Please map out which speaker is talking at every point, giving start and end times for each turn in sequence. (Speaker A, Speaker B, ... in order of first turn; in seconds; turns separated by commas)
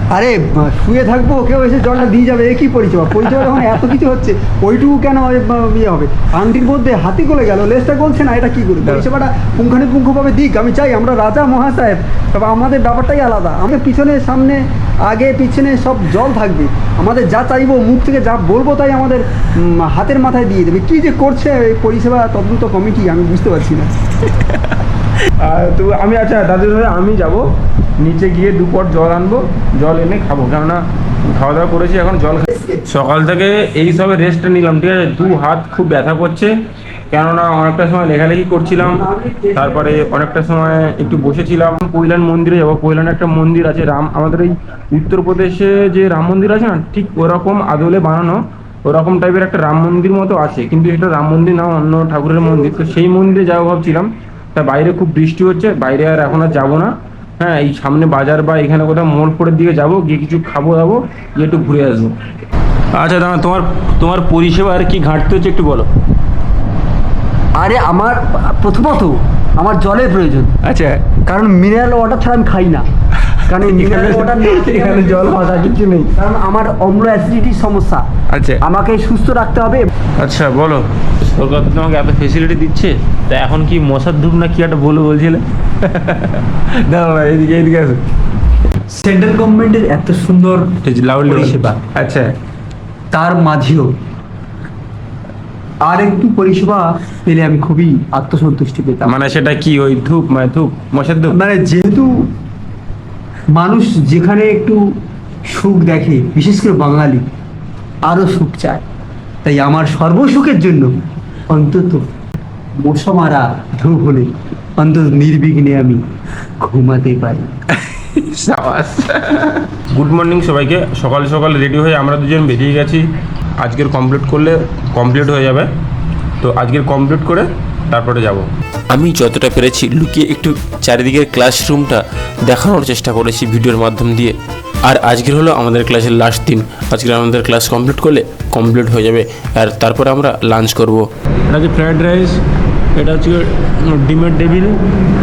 Speaker A: 0.1-23.9, Speaker B: 3.2-3.6, Speaker B: 24.4-24.8, Speaker B: 25.4-27.5, Speaker B: 28.0-36.5, Speaker A: 32.5-32.8, Speaker B: 37.1-62.1, Speaker B: 62.9-65.9, Speaker A: 67.6-70.5, Speaker B: 70.6-71.1, Speaker A: 71.2-72.8, Speaker B: 73.2-76.1, Speaker A: 73.5-78.0, Speaker B: 78.3-78.6, Speaker A: 78.6-79.9, Speaker B: 80.2-88.0, Speaker A: 88.9-90.7, Speaker B: 90.8-92.3, Speaker A: 91.2-91.8, Speaker A: 93.1-93.9, Speaker A: 95.8-99.2, Speaker B: 99.0-101.3, Speaker A: 101.3-102.1, Speaker A: 103.5-104.8, Speaker A: 105.5-107.2, Speaker A: 108.1-108.8, Speaker A: 109.4-110.9, Speaker A: 111.5-112.0, Speaker A: 112.8-116.0, Speaker A: 116.6-117.5, Speaker B: 117.7-123.0, Speaker B: 123.6-125.7, Speaker B: 126.4-128.4, Speaker C: 128.9-134.3, Speaker C: 134.9-141.1, Speaker B: 141.5-142.4, Speaker B: 142.9-144.8